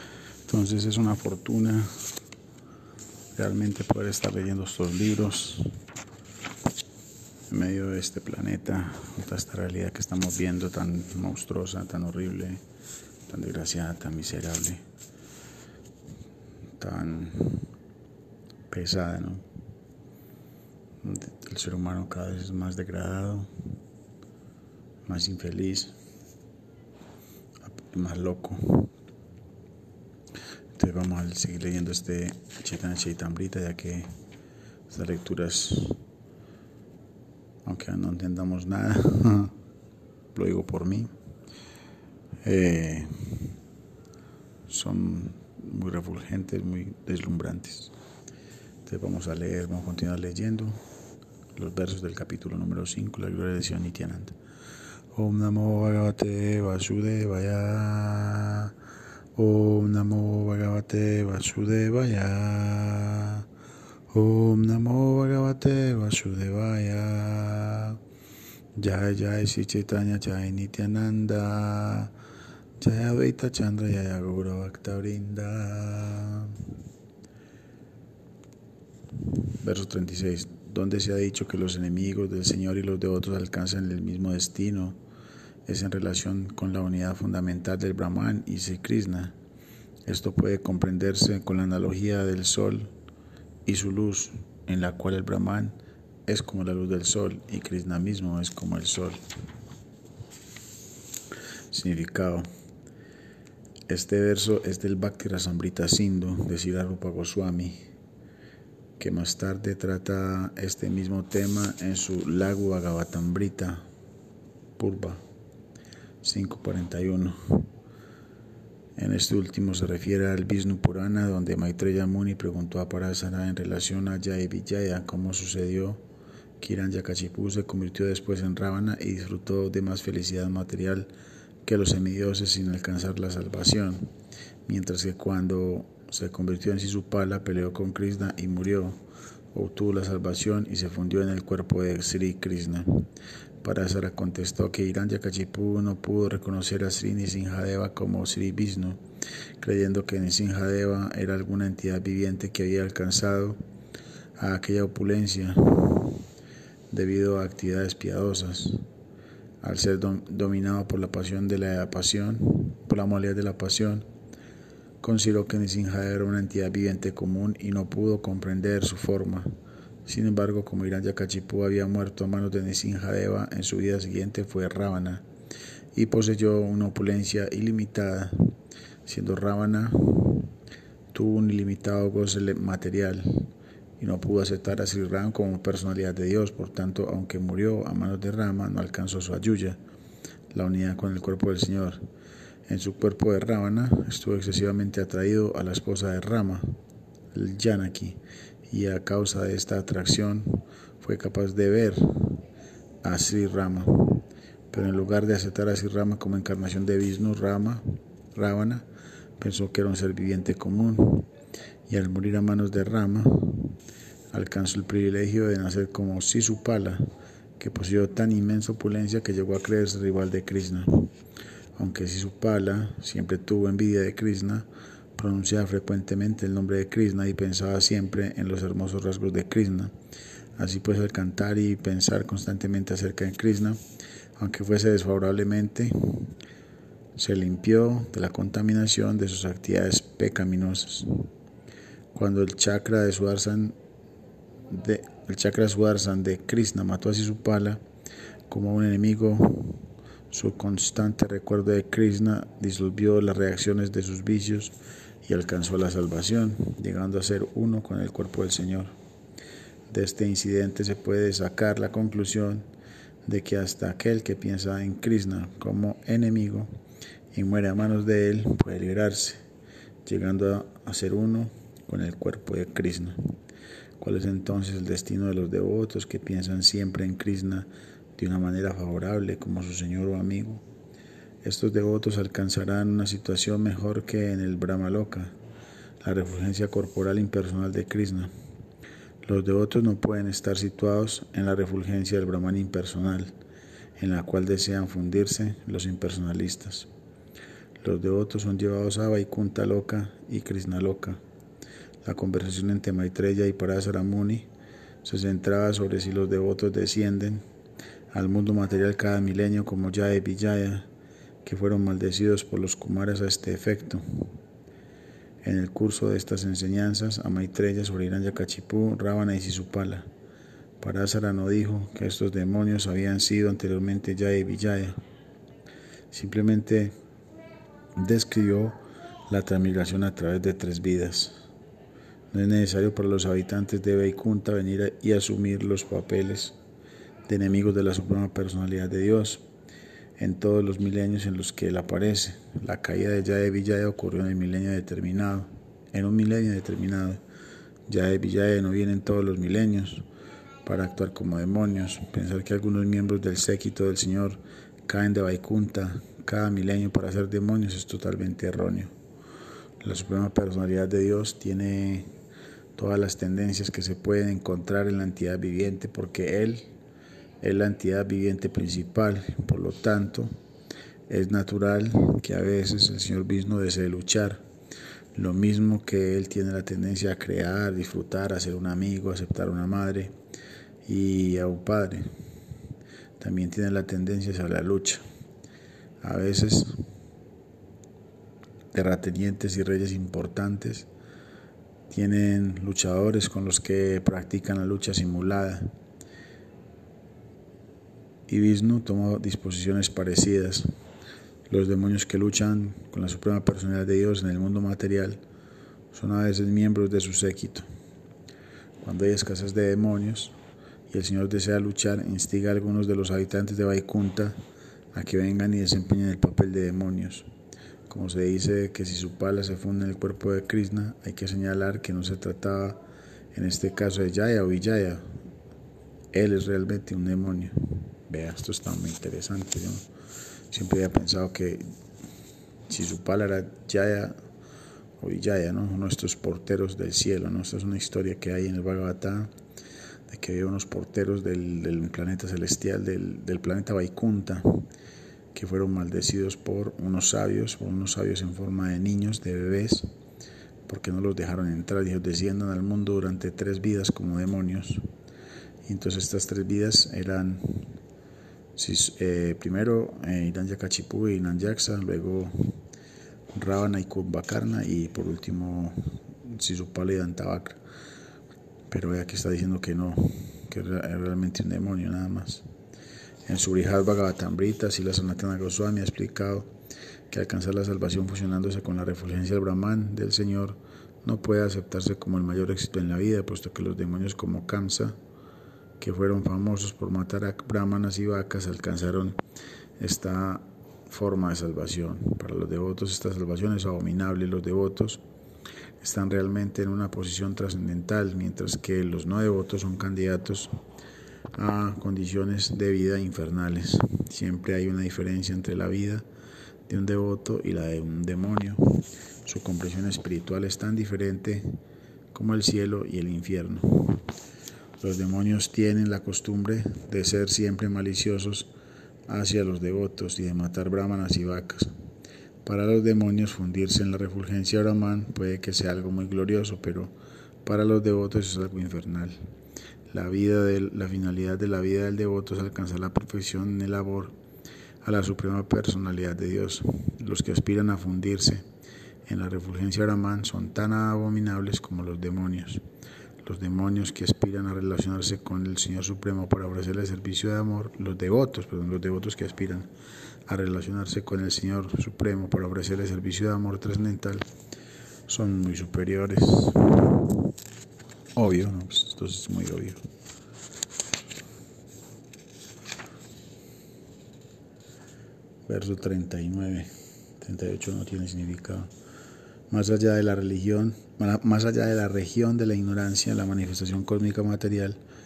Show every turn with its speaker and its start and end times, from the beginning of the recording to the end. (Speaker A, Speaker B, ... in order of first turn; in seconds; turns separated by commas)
Speaker A: 0.5-1.9, Speaker A: 3.4-5.7, Speaker A: 7.5-12.6, Speaker A: 13.3-14.8, Speaker A: 16.8-17.7, Speaker A: 18.7-19.4, Speaker A: 21.0-23.5, Speaker A: 25.1-25.9, Speaker A: 27.7-28.9, Speaker A: 30.8-34.1, Speaker A: 34.9-36.0, Speaker A: 37.6-39.5, Speaker A: 40.3-41.1, Speaker A: 42.4-43.5, Speaker A: 44.7-47.9, Speaker A: 48.9-50.8, Speaker A: 51.5-54.4, Speaker A: 55.1-58.7, Speaker A: 59.4-63.5, Speaker A: 64.1-68.0, Speaker A: 68.8-72.1, Speaker A: 72.8-76.6, Speaker A: 79.6-85.0, Speaker A: 85.7-89.3, Speaker A: 90.0-92.9, Speaker A: 93.6-99.2, Speaker A: 101.7-102.5, Speaker A: 103.9-107.8, Speaker A: 109.0-113.8, Speaker A: 114.8-115.2, Speaker A: 116.2-117.7, Speaker A: 119.0-126.0, Speaker A: 126.6-131.1, Speaker A: 131.6-134.1, Speaker A: 134.7-139.0, Speaker A: 139.5-143.1, Speaker A: 143.6-149.0, Speaker A: 149.6-153.6, Speaker A: 154.4-156.2, Speaker A: 156.9-158.8, Speaker A: 159.6-164.1, Speaker A: 165.0-169.5, Speaker A: 170.1-175.2, Speaker A: 175.9-178.5, Speaker A: 179.0-180.5, Speaker A: 181.1-189.8, Speaker A: 190.5-192.0, Speaker A: 192.7-196.7, Speaker A: 197.3-202.4, Speaker A: 203.0-208.8, Speaker A: 209.4-211.3, Speaker A: 211.9-213.8, Speaker A: 214.3-217.0, Speaker A: 217.6-221.1, Speaker A: 221.8-229.9, Speaker A: 230.6-233.8, Speaker A: 234.4-236.3, Speaker A: 237.2-241.3, Speaker A: 242.1-243.8, Speaker A: 244.7-247.8, Speaker A: 248.5-258.9, Speaker A: 259.9-262.7, Speaker A: 263.2-266.7, Speaker A: 267.3-269.4, Speaker A: 270.1-273.3, Speaker A: 274.0-280.6, Speaker A: 281.4-285.3, Speaker A: 286.0-288.3, Speaker A: 289.2-293.3, Speaker A: 294.0-296.9, Speaker A: 297.8-301.2, Speaker A: 302.0-304.5, Speaker A: 305.0-307.4, Speaker A: 308.1-310.9, Speaker A: 311.4-314.3, Speaker A: 315.4-320.1, Speaker A: 320.8-325.0, Speaker A: 326.1-326.9, Speaker A: 327.9-331.3, Speaker A: 332.3-336.6, Speaker A: 337.3-339.4, Speaker A: 340.2-347.2, Speaker A: 347.9-350.1, Speaker A: 350.6-358.9, Speaker A: 359.8-362.1, Speaker A: 362.8-366.7, Speaker A: 367.4-370.3, Speaker A: 371.1-374.4, Speaker A: 375.1-380.1, Speaker A: 380.8-382.1, Speaker A: 383.2-385.0, Speaker A: 386.0-386.8, Speaker A: 388.7-390.9, Speaker A: 391.9-395.7, Speaker A: 398.3-400.7, Speaker A: 401.5-405.2, Speaker A: 405.9-407.6, Speaker A: 408.8-410.4, Speaker A: 410.9-414.4, Speaker A: 414.9-417.3, Speaker A: 417.9-422.8, Speaker A: 423.3-425.0, Speaker A: 426.1-429.9, Speaker A: 430.5-431.6, Speaker A: 432.7-434.1, Speaker A: 435.0-439.3, Speaker A: 440.1-444.6, Speaker A: 445.3-449.9, Speaker A: 450.7-454.8, Speaker A: 455.6-457.7, Speaker A: 458.6-462.3, Speaker A: 463.3-467.6, Speaker A: 468.7-472.4, Speaker A: 473.3-476.5, Speaker A: 477.1-484.9, Speaker A: 485.8-489.2, Speaker A: 489.8-495.0, Speaker A: 495.8-500.5, Speaker A: 501.3-506.1, Speaker A: 506.7-511.6, Speaker A: 512.1-514.0, Speaker A: 514.8-518.5, Speaker A: 519.1-521.7, Speaker A: 522.4-526.9, Speaker A: 527.4-529.2, Speaker A: 529.9-534.1, Speaker A: 534.8-538.4, Speaker A: 539.0-542.6, Speaker A: 543.2-549.7, Speaker A: 550.3-554.3, Speaker A: 555.1-557.0, Speaker A: 558.1-559.8, Speaker A: 565.5-566.7, Speaker A: 567.2-568.7, Speaker A: 569.5-574.8